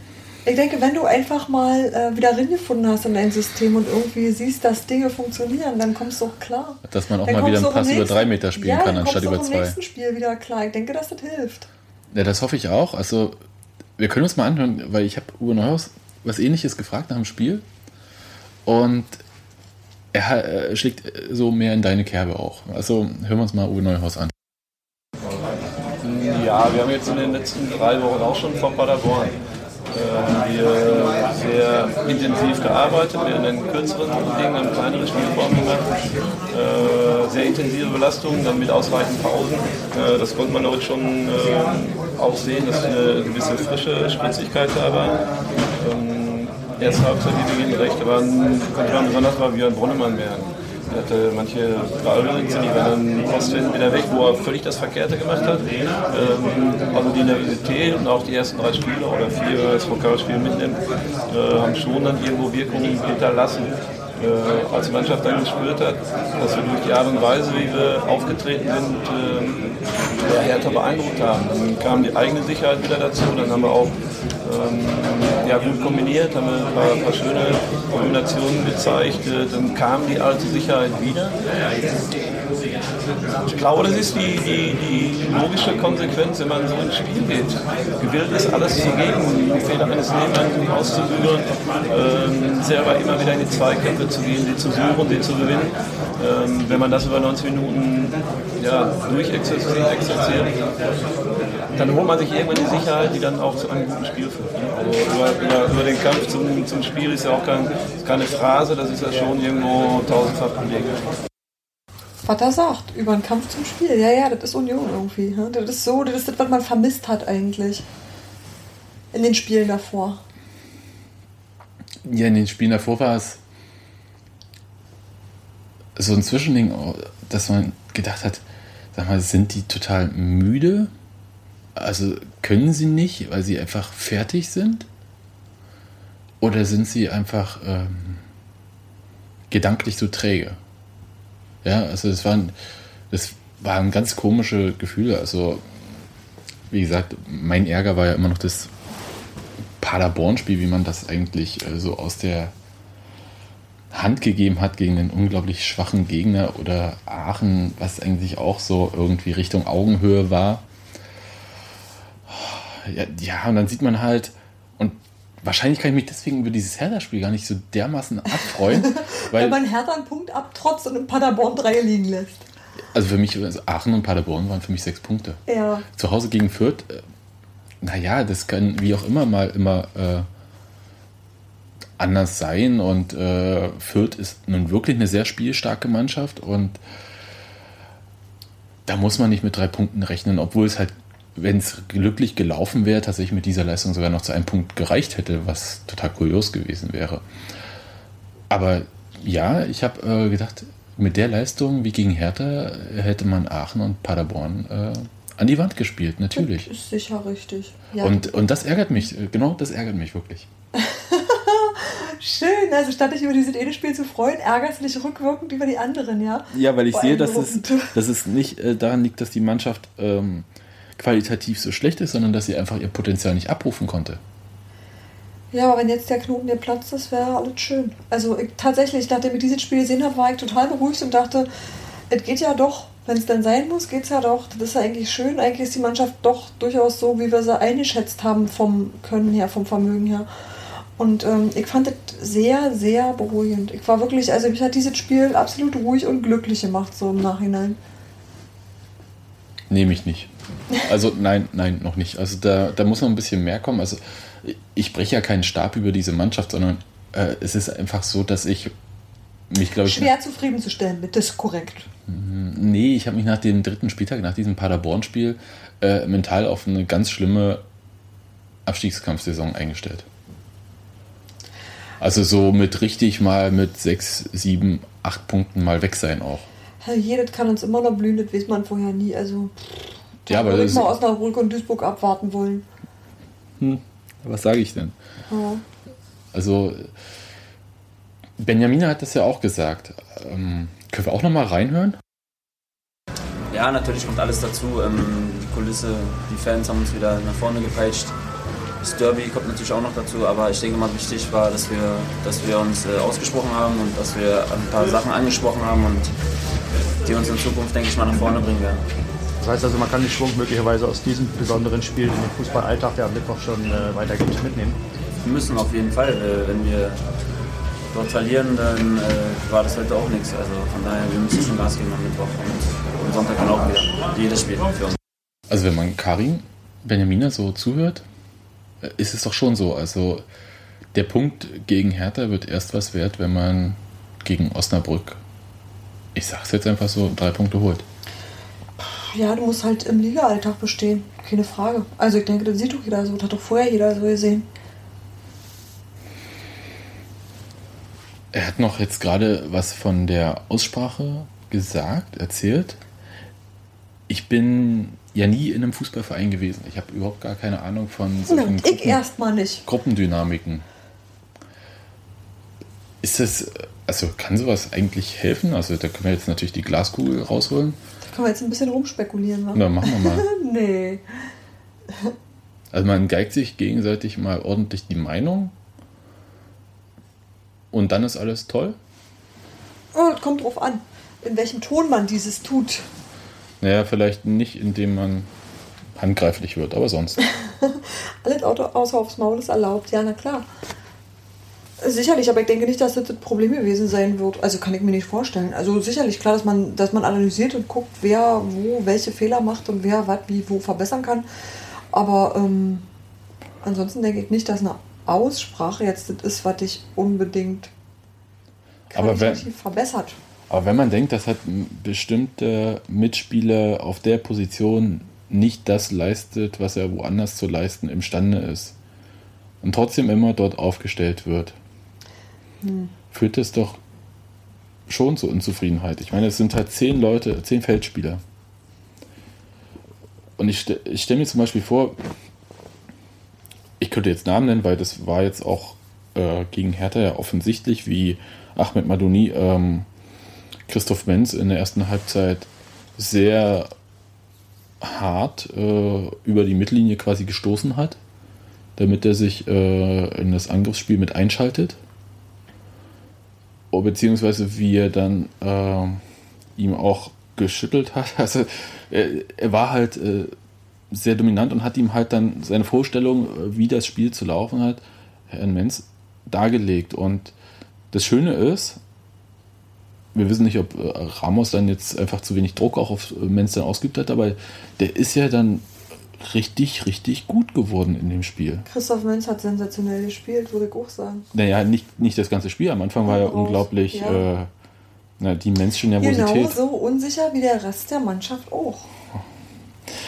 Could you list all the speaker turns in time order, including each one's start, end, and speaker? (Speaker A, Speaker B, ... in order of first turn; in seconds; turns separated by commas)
Speaker A: 0.5-11.7, Speaker B: 6.8-9.8, Speaker B: 12.1-13.4, Speaker B: 14.0-17.6, Speaker B: 18.6-19.2, Speaker B: 20.1-24.3, Speaker C: 26.0-29.4, Speaker C: 29.9-35.9, Speaker C: 36.5-45.2, Speaker C: 45.8-81.4, Speaker C: 83.5-100.6, Speaker C: 101.8-111.1, Speaker A: 112.2-117.8, Speaker A: 119.1-120.2, Speaker B: 122.0-123.4, Speaker B: 126.0-130.9, Speaker B: 131.8-134.9, Speaker B: 136.4-138.2, Speaker B: 139.5-140.6, Speaker B: 141.6-142.6, Speaker B: 143.1-145.7, Speaker B: 146.7-148.7, Speaker B: 149.8-152.5, Speaker B: 153.9-160.7, Speaker B: 162.3-169.6, Speaker A: 168.3-172.4, Speaker B: 172.9-175.4, Speaker A: 175.5-175.9, Speaker B: 175.9-177.0, Speaker B: 177.8-180.3, Speaker B: 182.0-186.8, Speaker B: 188.9-197.2, Speaker B: 198.5-206.7, Speaker A: 206.4-208.3, Speaker B: 208.0-210.5, Speaker A: 210.8-217.9, Speaker B: 216.5-224.2, Speaker A: 225.5-231.5, Speaker A: 232.1-240.3, Speaker A: 241.0-247.8, Speaker B: 249.7-258.7, Speaker B: 259.5-260.1, Speaker A: 259.8-261.9, Speaker B: 262.1-267.6, Speaker B: 268.7-270.1, Speaker B: 272.0-276.5, Speaker A: 276.8-282.6, Speaker B: 280.3-280.9, Speaker B: 283.6-285.0, Speaker A: 285.3-285.6, Speaker B: 286.3-286.9, Speaker B: 288.4-292.0, Speaker D: 293.5-298.1, Speaker D: 298.8-306.1, Speaker D: 307.1-308.8, Speaker E: 309.4-314.8, Speaker D: 315.2-317.0, Speaker D: 317.9-325.0, Speaker B: 325.5-328.1, Speaker B: 328.8-330.3, Speaker B: 330.9-335.2, Speaker B: 336.1-337.9, Speaker A: 338.8-344.5, Speaker B: 348.3-352.8, Speaker B: 354.1-359.0, Speaker A: 358.3-359.6, Speaker B: 359.6-360.6, Speaker B: 363.0-367.8, Speaker A: 368.1-371.3, Speaker B: 369.5-370.3, Speaker B: 372.7-375.5, Speaker B: 377.7-378.8, Speaker A: 379.9-382.9, Speaker B: 383.6-385.3, Speaker B: 385.9-387.2, Speaker A: 387.4-390.5, Speaker A: 391.8-401.3, Speaker A: 401.9-402.8, Speaker A: 403.6-407.7, Speaker A: 408.9-410.2, Speaker B: 408.9-409.5, Speaker B: 410.5-418.8, Speaker B: 419.6-421.6, Speaker A: 422.6-422.9, Speaker B: 423.1-423.8, Speaker B: 424.9-428.2, Speaker B: 430.4-432.0, Speaker B: 433.8-439.9, Speaker B: 440.7-443.7, Speaker B: 444.8-448.0, Speaker B: 448.8-451.8, Speaker B: 453.7-456.0, Speaker B: 456.6-460.3, Speaker B: 460.9-467.3, Speaker B: 467.9-468.8, Speaker B: 470.1-478.7, Speaker A: 478.7-481.2, Speaker B: 481.3-484.5, Speaker A: 483.1-484.3, Speaker B: 485.2-486.6, Speaker A: 486.0-488.9